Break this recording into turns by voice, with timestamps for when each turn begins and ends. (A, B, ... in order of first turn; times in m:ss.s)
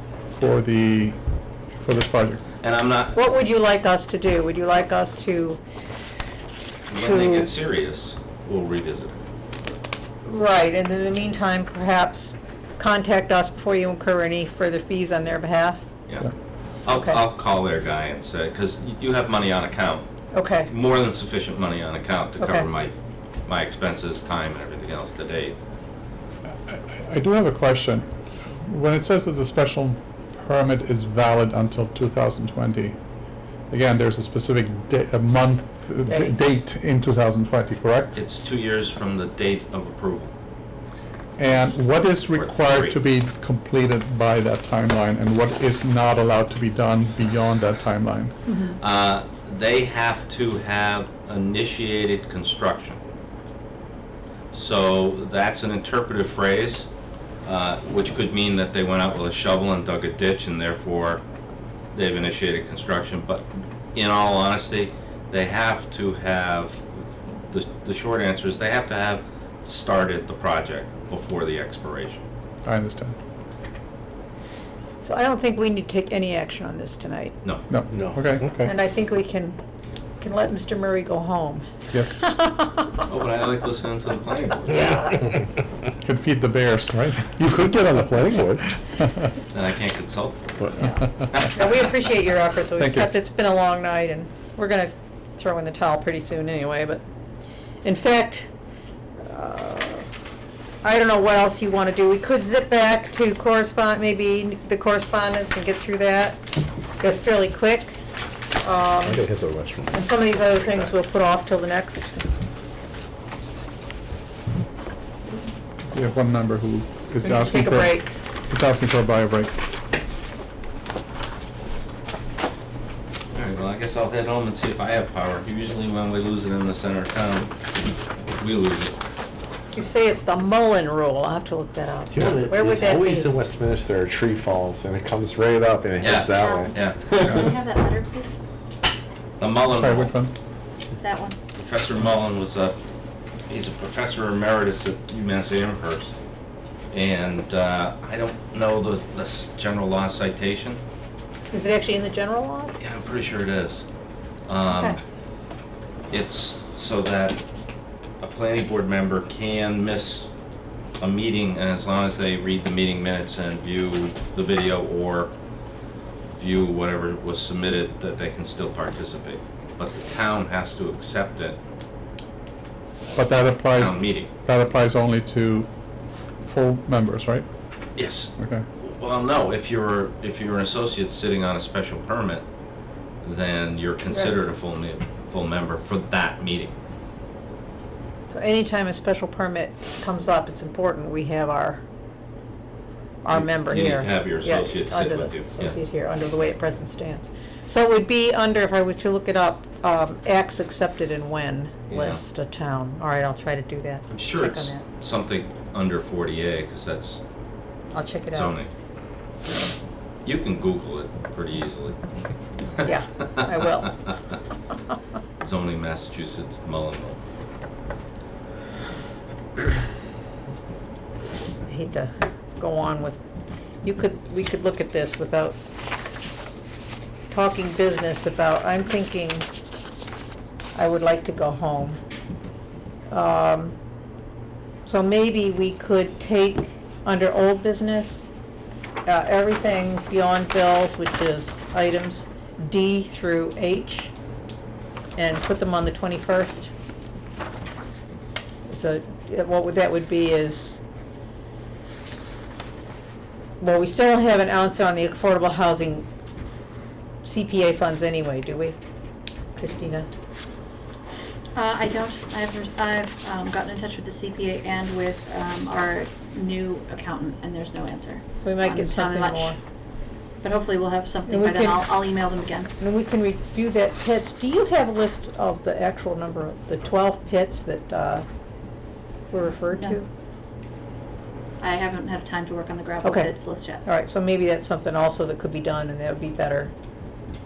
0:00.3-0:01.2 A
0:01.8-0:02.4 A
0:02.6-0:03.2 B
0:03.1-0:05.6 C
0:06.9-0:09.2 B
0:07.0-0:07.5 C
0:10.2-0:15.8 C
0:16.8-0:20.1 B
0:16.9-0:17.2 C
0:20.3-0:20.7 C
0:20.7-0:22.9 B
0:22.4-0:22.6 C
0:23.5-0:25.6 B
0:26.6-0:28.1 A
0:28.6-0:33.0 A
0:33.7-0:38.2 A
0:36.1-0:36.4 C
0:38.1-0:40.3 B
0:41.4-0:48.3 A
0:42.3-0:43.0 B
0:48.8-0:53.0 B
0:54.5-0:56.9 B
0:57.4-1:01.2 B
1:01.9-1:12.2 B
1:12.6-1:13.2 A
1:15.0-1:17.4 C
1:17.7-1:18.7 A
1:17.9-1:18.7 D
1:18.6-1:19.6 C
1:20.2-1:22.9 C
1:21.9-1:22.2 A
1:23.1-1:25.2 B
1:26.0-1:27.5 A
1:27.4-1:28.6 D
1:29.5-1:31.7 B
1:30.6-1:30.8 D
1:30.8-1:37.0 C
1:32.8-1:33.1 A
1:37.8-1:38.5 C
1:39.2-1:40.1 C
1:40.8-1:46.4 C
1:47.0-1:48.0 C
1:48.6-1:49.2 C
1:49.0-1:50.0 D
1:49.9-1:52.1 C
1:55.9-1:59.5 A
1:57.2-1:58.1 C
2:03.3-2:07.5 B
2:08.4-2:09.0 B
2:09.7-2:13.3 C
2:12.1-2:17.5 D
2:16.0-2:17.6 B
2:17.7-2:18.0 E
2:19.4-2:20.1 B
2:19.7-2:20.3 A
2:21.0-2:22.8 B
2:23.5-2:26.1 B
2:26.9-2:30.8 B
2:31.5-2:32.8 C
2:32.8-2:33.8 B
2:34.5-2:35.0 B
2:34.7-2:35.0 C
2:36.1-2:37.4 B
2:38.2-2:40.3 B
2:41.0-2:45.3 B
2:46.3-2:51.6 B
2:53.1-2:55.7 A
2:53.7-2:54.3 B
2:56.4-2:57.4 A
2:58.0-3:02.4 B
2:58.4-2:58.6 A
3:03.2-3:06.7 B
3:08.3-3:11.8 C
3:13.2-3:24.8 C
3:13.3-3:15.8 B
3:21.9-3:22.2 B
3:24.1-3:27.2 B
3:27.9-3:28.6 C
3:28.3-3:28.7 B
3:30.2-3:32.0 B
3:32.8-3:34.1 C
3:35.4-3:37.2 B
3:41.7-3:43.2 C
3:43.8-3:45.6 C
3:47.3-3:49.4 C
3:50.7-3:52.0 C
3:53.1-3:53.7 C
3:54.8-3:58.3 C
3:59.0-4:04.1 C
4:05.2-4:06.7 C
4:08.7-4:10.8 C
4:13.6-4:16.0 C
4:17.2-4:18.8 C
4:19.6-4:20.1 C
4:21.7-4:28.2 E
4:28.4-4:29.6 C
4:28.8-4:29.4 E
4:30.6-4:32.6 E
4:31.3-4:38.2 C
4:39.3-4:40.1 C
4:41.7-4:43.0 E
4:43.0-4:46.7 C